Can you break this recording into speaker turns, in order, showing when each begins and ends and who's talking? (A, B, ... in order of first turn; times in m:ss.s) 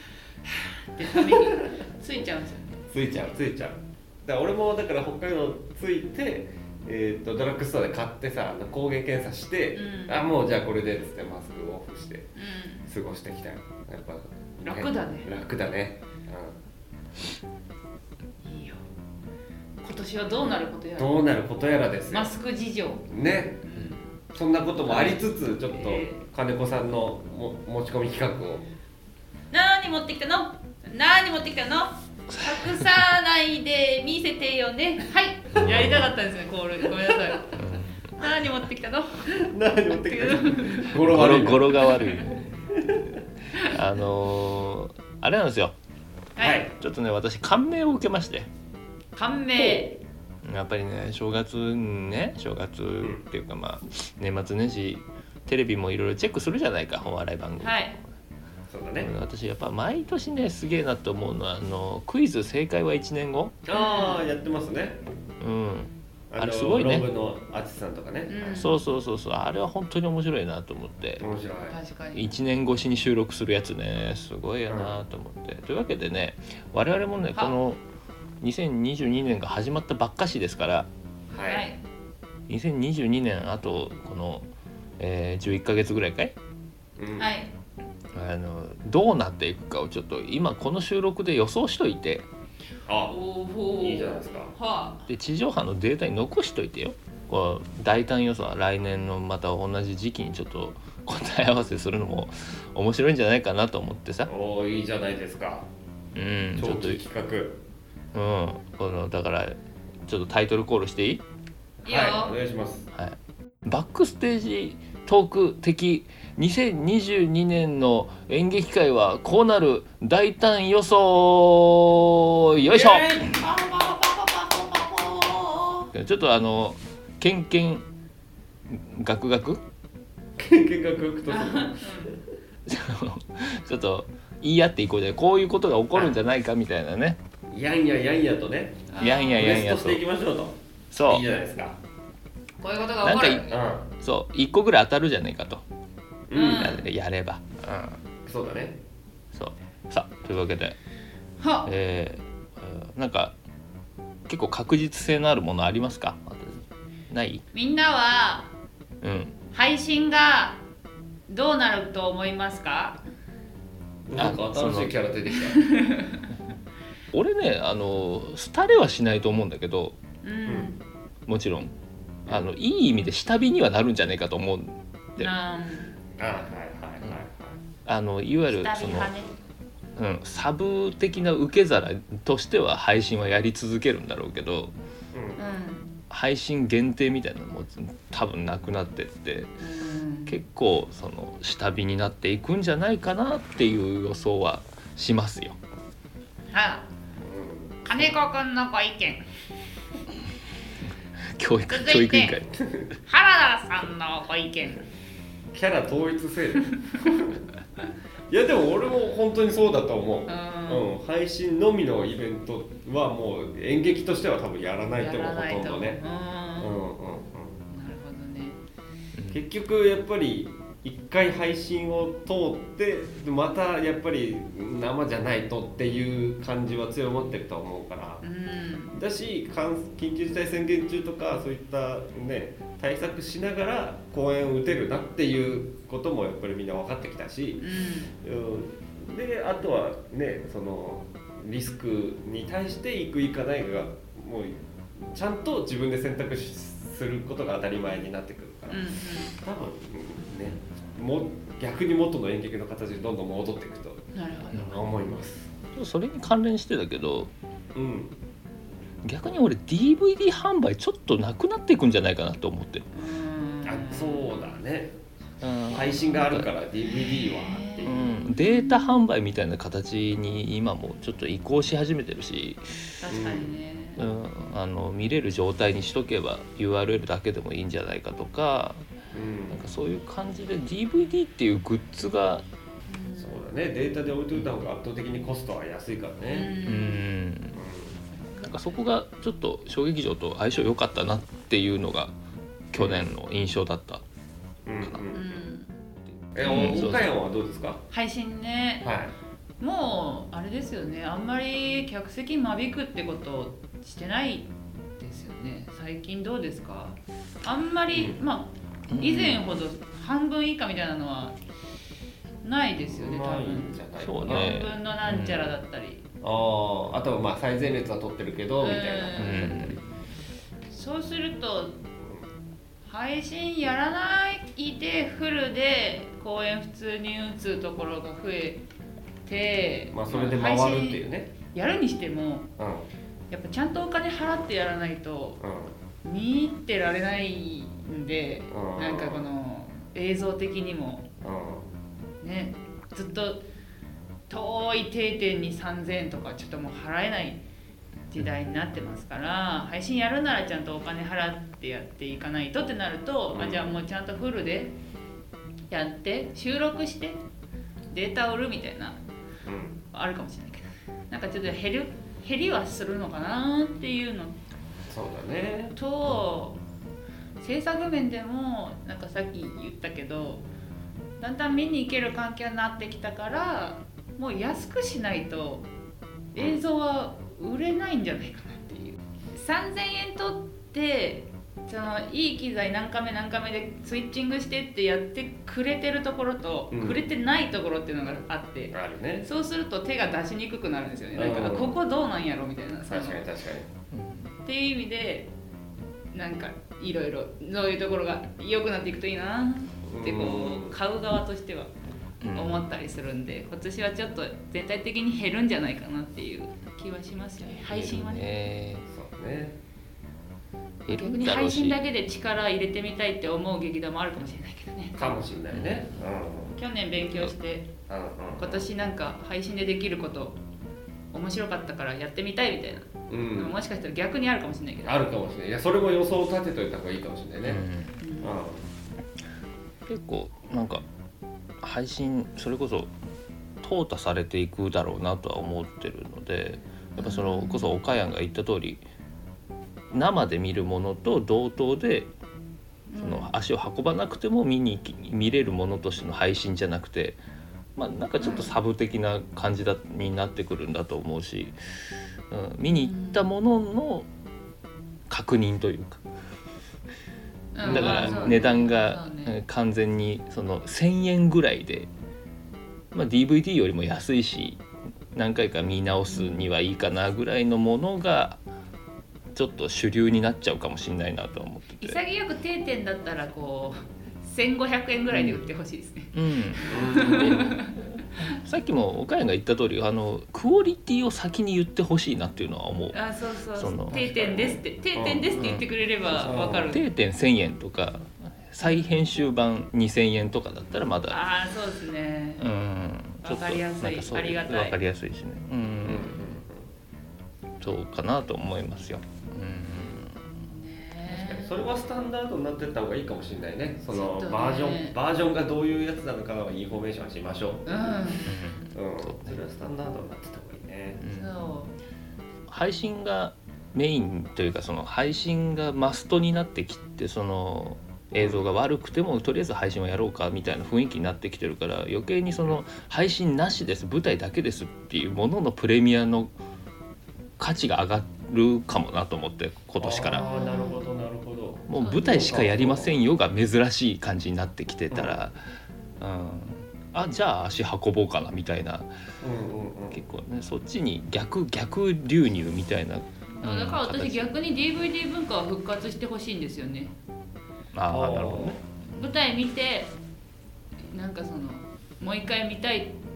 0:00.4-0:02.8 A
0:01.1-0:01.7 B
0:02.9-0:12.3 B
0:09.7-0:10.2 A
0:12.4-0:12.9 A
0:12.8-0:16.6 B
0:14.6-0:15.3 A
0:18.4-0:18.8 A
0:19.8-0:21.3 A
0:21.0-0:22.3 B
0:22.1-0:23.1 A
0:23.1-0:23.6 B
0:23.6-0:24.1 A
0:24.3-0:28.6 B
0:24.9-0:26.2 A
0:29.5-0:37.6 A
0:32.3-0:32.8 C
0:35.5-0:36.1 C
0:37.1-0:37.4 B
0:37.5-0:38.1 C
0:38.2-0:41.0 A
0:39.3-0:42.0 B
0:40.9-0:42.8 C
0:41.9-0:42.4 A
0:42.7-0:43.2 B
0:43.6-0:45.7 C
0:46.4-0:46.7 A
0:46.4-0:46.7 B
0:46.7-0:48.5 C
0:49.1-0:50.0 A
0:49.6-0:49.9 B
0:50.4-0:58.0 C
0:57.6-0:57.9 A
0:58.7-0:59.1 B
0:59.0-1:03.6 C
1:03.6-1:05.0 B
1:03.7-1:04.2 A
1:05.4-1:07.1 C
1:06.3-1:08.7 B
1:08.3-1:08.8 A
1:08.5-1:11.2 C
1:11.2-1:11.8 B
1:11.7-1:12.3 A
1:12.1-1:17.8 C
1:14.7-1:15.0 B
1:18.4-1:20.9 C
1:21.3-1:21.7 B
1:21.4-1:21.8 A
1:22.5-1:24.4 C
1:25.0-1:26.3 C
1:27.0-1:27.3 B
1:27.2-1:27.5 A
1:28.1-1:32.3 C
1:32.8-1:33.2 B
1:33.0-1:35.1 A
1:33.8-1:34.5 B
1:35.1-1:44.3 C
1:44.3-1:45.7 B
1:46.1-1:47.0 C
1:46.6-1:47.6 B
1:48.1-1:51.2 C
1:51.8-1:52.9 B
1:51.8-1:52.4 A
1:53.0-2:03.4 C
2:02.8-2:05.9 A
2:05.9-2:07.8 C
2:08.7-2:09.6 C
2:10.4-2:12.2 B
2:11.3-2:12.2 A
2:12.7-2:17.2 C
2:17.5-2:21.8 B
2:18.9-2:19.5 A
2:19.0-2:20.0 C
2:20.9-2:21.2 C
2:22.6-2:23.6 A
2:23.0-2:25.6 C
2:23.5-2:23.8 B
2:26.3-2:26.8 B
2:26.3-2:26.8 A
2:26.4-2:28.0 C
2:28.2-2:28.8 B
2:29.3-2:30.8 C
2:31.4-2:31.7 A
2:31.6-2:33.4 C
2:34.3-2:37.4 C
2:37.5-2:38.5 A
2:39.0-2:39.4 C
2:39.5-2:40.6 A
2:41.3-2:43.0 A
2:44.1-2:45.7 B
2:44.2-2:44.9 C
2:45.5-2:46.3 A
2:47.1-2:50.0 C
2:50.2-2:50.8 A
2:51.3-2:51.7 C
2:52.2-2:52.5 B
2:52.3-2:55.3 C
2:55.2-2:56.0 A
2:56.2-2:57.6 B
2:57.8-2:59.1 C
2:58.5-2:59.3 A
3:00.0-3:04.7 C
3:05.1-3:05.4 B
3:05.4-3:05.9 A
3:06.1-3:09.5 C
3:09.6-3:10.4 A
3:10.3-3:15.6 C
3:16.5-3:16.8 A
3:17.2-3:18.0 B
3:17.8-3:19.2 A
3:21.4-3:22.6 C
3:21.7-3:22.4 A
3:23.1-3:24.8 A
3:25.5-3:27.4 B
3:26.9-3:27.2 A
3:28.3-3:36.0 B
3:30.3-3:30.9 A
3:35.0-3:36.8 A
3:36.6-3:37.6 B
3:37.7-3:38.6 A
3:39.1-3:39.4 C
3:39.3-3:48.2 B
3:48.2-3:49.0 A
3:48.9-3:57.6 B
3:57.6-3:58.1 A
3:58.2-4:15.5 B
4:08.7-4:09.4 A
4:14.1-4:14.8 A
4:15.7-4:17.3 C
4:17.7-4:18.2 B
4:19.0-4:22.9 C
4:22.9-4:24.5 A
4:23.6-4:24.9 B
4:25.4-4:26.5 C
4:25.7-4:28.1 B
4:26.8-4:29.0 A
4:27.8-4:33.1 C
4:33.0-4:34.0 A
4:33.1-4:33.5 B
4:34.0-4:38.8 C
4:39.1-4:39.6 B
4:39.5-4:42.4 C
4:42.9-4:43.4 A
4:43.2-4:46.6 B
4:46.3-4:47.0 A
4:46.6-4:47.6 C
4:47.5-4:48.0 B
4:48.4-4:52.2 C
4:52.7-4:54.0 C
4:52.7-4:53.0 B
4:54.6-4:55.3 B
4:55.1-4:55.7 A
4:56.3-4:57.8 B
4:56.4-4:57.1 C
4:56.4-4:56.8 A
4:57.9-4:58.9 A
4:58.8-4:59.1 B
4:59.6-5:11.4 A
5:07.9-5:08.2 B
5:08.9-5:09.4 C
5:12.4-5:16.0 A
5:12.8-5:14.5 B
5:14.0-5:15.5 C
5:16.2-5:19.8 B
5:18.6-5:19.6 A
5:19.2-5:19.8 C
5:20.7-5:21.8 A
5:22.0-5:22.2 B
5:22.9-5:28.6 A
5:29.2-5:32.5 A
5:29.9-5:31.3 B
5:32.6-5:32.9 B
5:33.3-5:35.4 A
5:35.4-5:35.8 B
5:36.0-5:41.1 A
5:38.5-5:39.3 B
5:41.2-5:41.7 B
5:42.2-5:43.4 A
5:44.3-5:47.4 A
5:48.1-5:54.8 A
5:53.3-5:53.6 B
5:55.7-5:57.2 A
5:57.9-5:59.0 A
5:59.4-5:59.8 B
5:59.9-6:04.4 A
6:04.9-6:05.8 B
6:05.7-6:06.6 A
6:07.4-6:10.4 A
6:11.2-6:15.7 A
6:16.3-6:33.2 A
6:16.3-6:16.6 B
6:26.7-6:27.0 B
6:28.7-6:29.3 B
6:31.1-6:31.8 B
6:32.9-6:33.7 B
6:33.9-6:34.3 C
6:34.4-6:35.3 A
6:36.1-6:41.7 A
6:39.9-6:40.8 B
6:42.2-6:42.6 C
6:42.3-6:48.3 A
6:47.5-6:48.8 C
6:48.9-6:49.6 B
6:50.8-6:51.8 C
6:50.9-6:55.0 A
6:55.0-6:56.6 B
6:55.5-6:55.8 C
6:56.6-6:57.7 A
6:57.9-6:58.7 B
6:58.4-7:00.4 A
7:01.1-7:05.0 A
7:03.1-7:03.5 B
7:04.8-7:07.6 B
7:07.4-7:08.0 C
7:08.0-7:08.4 A
7:08.2-7:08.7 B
7:09.9-7:10.8 C
7:11.6-7:12.9 C
7:13.6-7:18.8 C
7:17.0-7:17.8 A
7:19.9-7:22.1 C
7:22.9-7:23.3 A
7:23.0-7:27.2 C
7:27.8-7:31.6 C
7:28.2-7:28.5 A
7:32.3-7:34.1 C
7:32.7-7:33.3 A
7:35.1-7:36.0 C
7:37.5-7:39.4 A
7:37.6-7:38.4 B
7:37.6-7:41.9 C
7:42.9-7:44.6 C
7:45.1-7:48.4 C
7:46.1-7:46.5 A
7:49.3-7:52.0 C
7:51.8-7:57.8 A
7:55.1-7:55.4 C
7:56.1-8:03.0 C
7:56.7-7:57.5 B
8:02.9-8:06.8 A
8:03.6-8:04.6 C
8:04.9-8:05.3 B
8:05.4-8:05.6 C
8:06.1-8:06.7 B
8:06.6-8:11.2 C
8:08.6-8:08.9 A
8:11.1-8:12.5 A
8:12.4-8:16.3 C
8:13.2-8:14.8 A
8:15.8-8:16.7 B
8:17.6-8:20.4 C
8:20.5-8:21.6 A
8:21.1-8:28.0 B
8:23.9-8:25.0 A
8:27.6-8:28.4 A
8:28.2-8:29.4 C
8:28.7-8:31.0 B
8:31.0-8:31.3 C
8:31.1-8:31.7 A
8:32.5-8:46.3 C
8:38.2-8:38.4 B
8:47.4-8:50.3 C
8:49.8-8:52.9 B
8:50.1-8:50.9 A
8:51.7-8:55.4 C
8:51.7-8:52.3 A
8:54.9-8:55.2 B
8:56.0-8:58.9 C
8:59.2-9:00.0 B
8:59.9-9:04.3 C
9:03.4-9:06.9 A
9:07.7-9:08.6 C
9:07.9-9:08.6 B
9:08.9-9:09.9 A
9:10.9-9:13.0 A